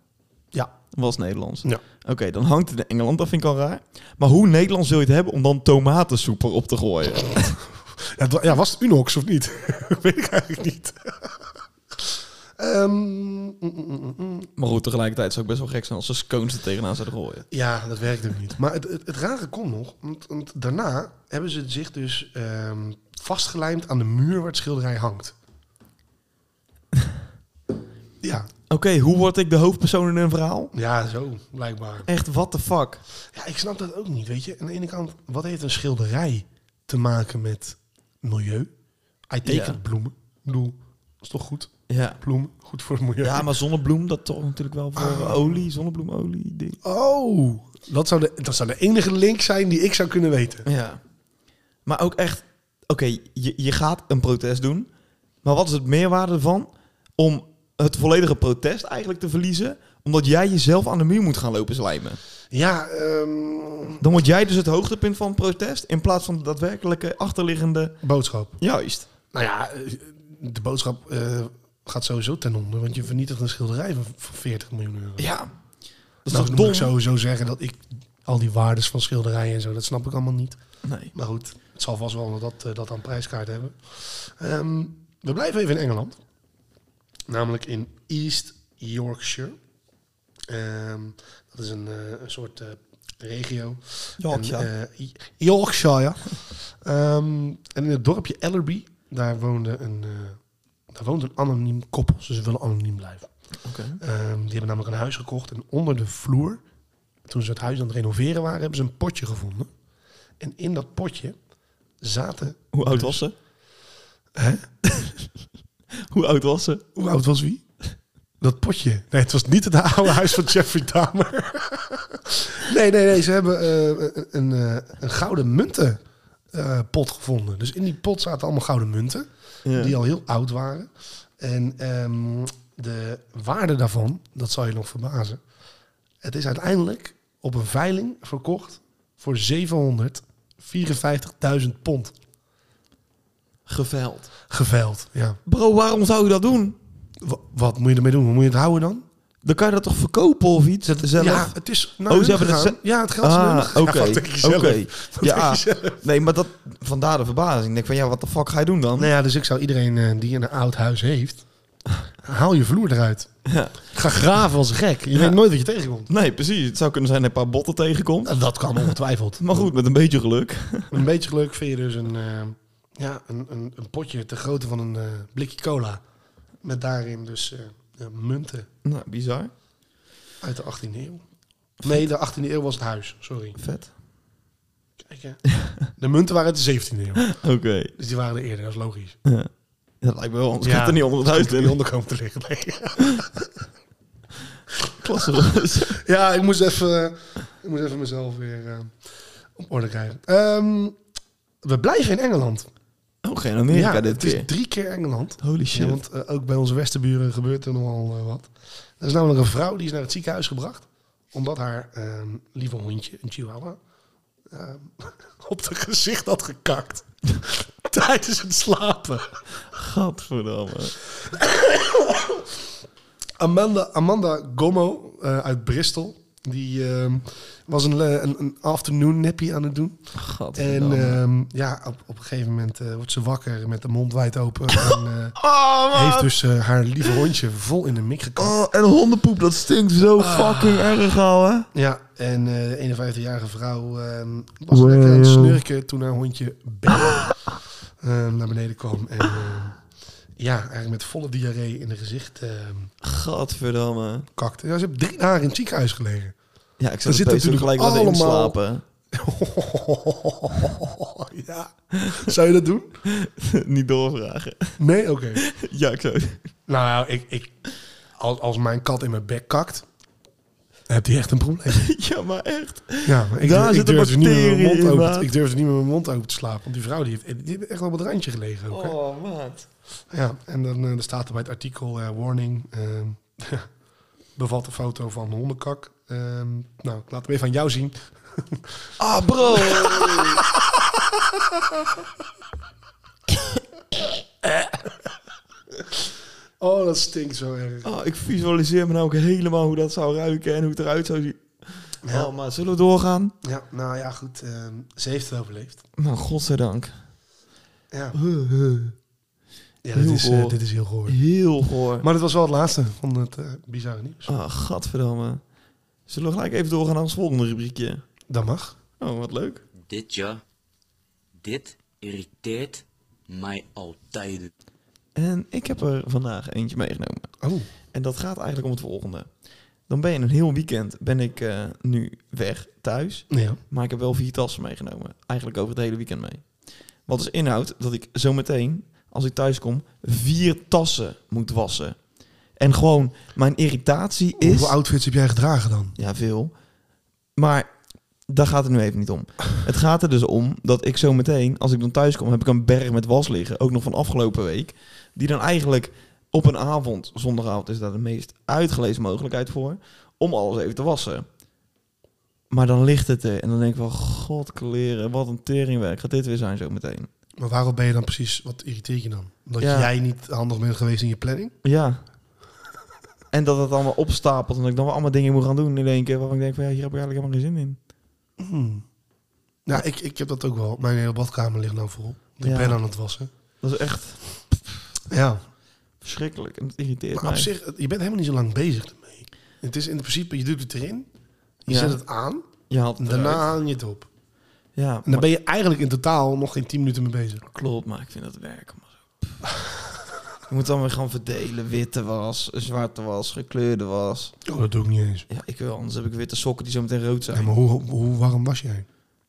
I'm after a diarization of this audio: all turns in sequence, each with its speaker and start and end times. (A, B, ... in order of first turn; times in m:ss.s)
0:00.9-0:07.6 A
0:08.0-0:14.5 B
0:14.6-0:17.5 A
0:17.5-0:25.4 B
0:28.2-0:28.5 B
0:28.7-0:30.7 A
0:30.7-0:32.1 B
0:32.1-0:33.0 A
0:33.3-0:38.7 B
0:39.3-0:43.5 B
0:39.4-0:39.8 A
0:41.9-0:42.2 A
0:43.2-0:46.8 A
0:45.0-0:45.6 B
0:46.8-0:50.7 B
0:50.7-0:51.0 A
0:51.9-0:54.9 A
0:55.4-1:02.2 A
1:02.5-1:04.0 B
1:04.0-1:08.0 A
1:08.0-1:08.6 B
1:08.6-1:09.1 A
1:09.3-1:15.3 B
1:15.2-1:15.5 A
1:16.2-1:16.9 A
1:16.3-1:20.6 B
1:20.8-1:21.1 A
1:21.1-1:26.2 B
1:27.3-1:29.6 B
1:30.5-1:40.4 B
1:34.2-1:34.7 A
1:40.9-1:43.3 B
1:43.6-1:44.0 A
1:44.0-1:46.6 B
1:47.3-1:49.7 B
1:50.4-1:51.4 B
1:52.0-1:53.2 B
1:52.7-1:53.3 A
1:54.4-1:54.7 B
1:56.1-1:56.8 A
1:57.0-1:57.6 B
1:58.4-2:06.0 B
2:06.5-2:15.4 B
2:09.6-2:10.0 A
2:16.2-2:22.2 B
2:23.7-2:24.3 A
2:24.5-2:25.4 B
2:25.5-2:26.8 A
2:27.2-2:29.0 B
2:29.4-2:31.6 A
2:30.9-2:36.0 B
2:32.1-2:39.1 A
2:39.0-2:41.5 B
2:42.2-2:43.4 B
2:43.4-2:43.9 A
2:43.9-2:46.1 B
2:46.1-2:51.0 A
2:48.3-2:49.7 B
2:50.9-2:56.0 B
2:56.6-2:58.7 B
2:58.8-2:59.5 A
3:00.4-3:01.2 B
3:01.8-3:03.6 B
3:03.6-3:03.9 A
3:05.0-3:07.3 B
3:05.6-3:05.9 A
3:07.2-3:07.9 A
3:08.0-3:09.2 B
3:10.0-3:11.8 A
3:10.6-3:13.6 B
3:15.0-3:16.0 A
3:16.0-3:21.0 B
3:21.6-3:22.7 B
3:23.2-3:24.5 A
3:23.7-3:33.8 B
3:25.4-3:26.0 A
3:34.5-3:39.4 B
3:39.7-3:41.0 A
3:41.2-3:42.6 B
3:43.4-3:50.0 B
3:50.1-3:51.2 A
3:50.6-3:55.4 B
3:54.7-3:56.3 A
3:55.9-3:58.6 B
3:58.4-4:01.7 A
4:00.2-4:01.0 B
4:01.7-4:07.4 B
4:04.7-4:05.6 A
4:06.9-4:07.6 A
4:08.0-4:09.8 B
4:10.4-4:12.9 B
4:13.0-4:14.3 A
4:14.4-4:16.4 B
4:16.8-4:18.8 A
4:17.0-4:18.6 B
4:19.1-4:23.0 B
4:21.9-4:22.3 A
4:23.1-4:24.8 A
4:24.8-4:25.4 B
4:25.4-4:26.4 A
4:26.7-4:27.6 B
4:28.2-4:29.9 B
4:30.9-4:31.9 B
4:31.7-4:35.3 A
4:33.0-4:39.0 B
4:38.7-4:39.7 A
4:40.1-4:43.7 B
4:44.4-4:51.9 B
4:49.0-4:50.4 A
4:54.4-4:55.0 B
4:56.6-4:57.9 B
4:57.8-5:03.3 A
5:02.0-5:02.3 B
5:03.4-5:05.8 B
5:06.0-5:07.0 A
5:07.9-5:08.2 B
5:08.1-5:08.9 A
5:09.8-5:11.2 B
5:09.9-5:12.1 A
5:12.0-5:14.3 B
5:14.3-5:15.4 A
5:16.1-5:18.0 A
5:18.3-5:18.8 B
5:19.0-5:19.6 A
5:19.8-5:20.4 C
5:21.4-5:24.5 C
5:25.2-5:27.3 A
5:27.4-5:27.7 B
5:27.9-5:29.3 A
5:29.9-5:36.5 A
5:33.3-5:33.6 B
5:37.1-5:42.0 A
5:42.6-5:44.8 A
5:44.4-5:46.0 B
5:46.0-5:46.5 A
5:47.4-5:47.7 A
5:48.3-6:01.3 A
6:02.5-6:07.1 A
6:07.4-6:11.6 B
6:09.6-6:09.9 A
6:11.6-6:12.0 A
6:13.3-6:17.8 A
6:18.4-6:18.8 B
6:19.6-6:23.3 B
6:22.4-6:22.8 A
6:23.6-6:24.6 A
6:25.1-6:25.4 B
6:26.0-6:27.5 A
6:27.2-6:31.1 B
6:31.6-6:32.5 B
6:31.7-6:32.0 A
6:32.7-6:33.6 A
6:33.0-6:34.1 B
6:34.8-6:35.3 A
6:35.1-6:37.4 B
6:37.5-6:39.5 A
6:40.5-6:44.4 A
6:44.4-6:45.3 B
6:45.3-6:47.5 A
6:47.3-6:48.9 B